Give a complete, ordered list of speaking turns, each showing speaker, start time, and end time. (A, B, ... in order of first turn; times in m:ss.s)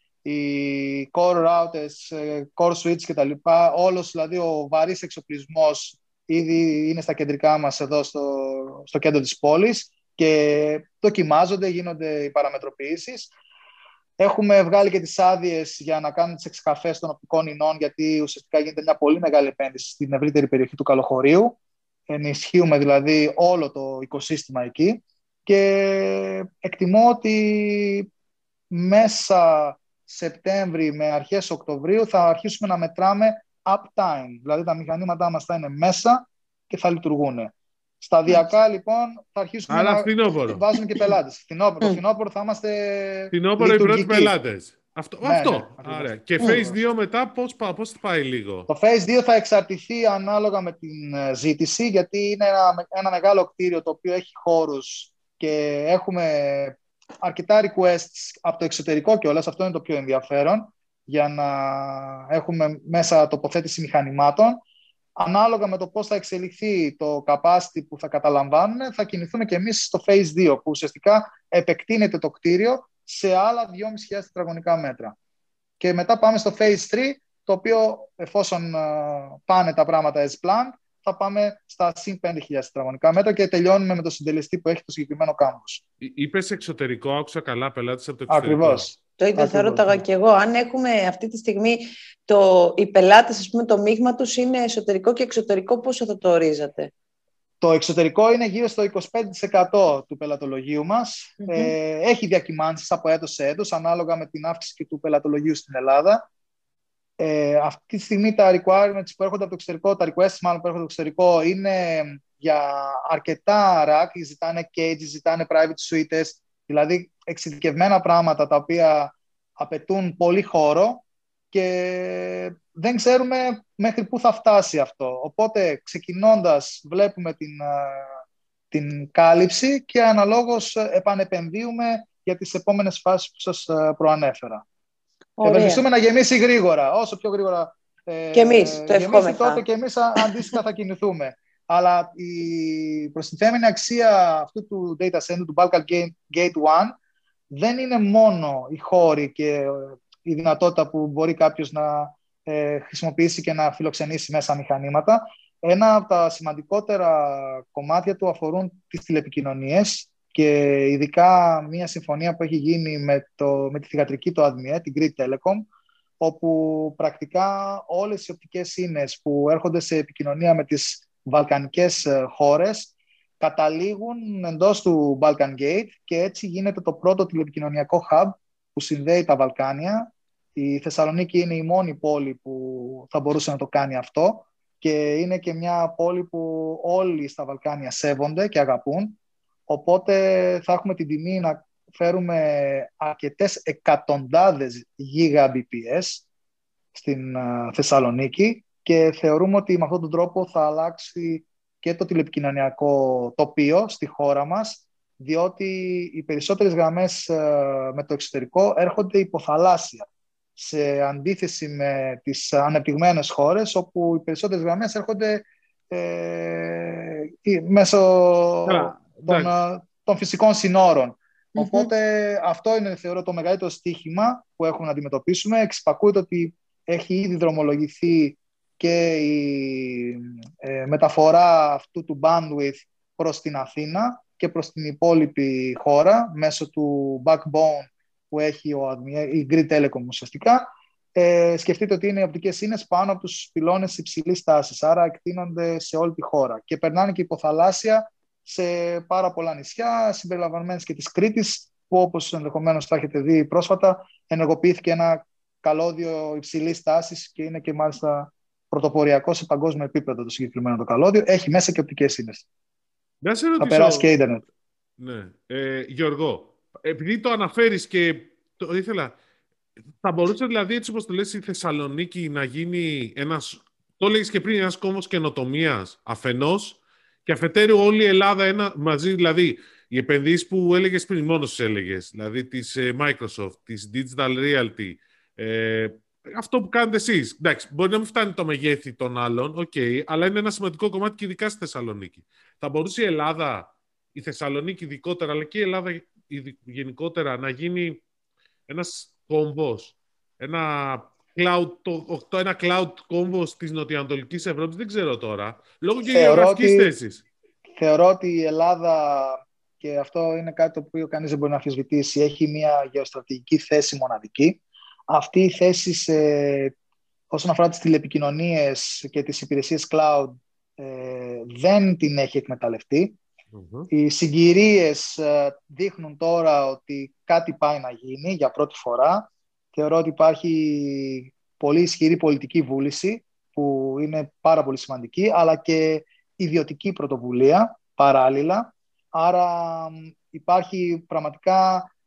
0:00.2-0:13.3 A
0:14.2-0:21.6 A
0:22.1-0:28.1 A
0:28.7-0:44.3 A
0:39.7-0:40.6 B
0:43.3-0:48.7 B
0:45.2-0:46.7 A
0:48.7-1:04.6 A
1:05.2-1:15.1 A
1:15.8-1:25.8 A
1:26.0-1:28.9 B
1:28.3-1:30.0 A
1:29.2-1:36.9 C
1:37.6-1:46.2 A
1:41.4-1:41.7 C
1:47.2-2:08.2 A
2:08.7-2:14.6 A
2:15.4-2:15.8 C
2:15.4-2:26.9 A
2:18.3-2:19.6 C
2:20.2-2:20.5 C
2:27.5-2:45.7 A
2:46.2-3:16.2 A
3:16.9-4:22.4 A
3:38.7-3:39.5 B
3:41.6-3:41.9 C
4:23.2-4:24.1 B
4:23.6-4:24.4 A
4:25.0-4:29.2 B
4:30.0-4:58.0 B
4:58.7-5:07.2 B
5:06.1-5:06.9 A
5:07.8-5:16.7 A
5:17.3-5:23.2 A
5:23.5-5:23.9 B
5:23.9-5:41.9 A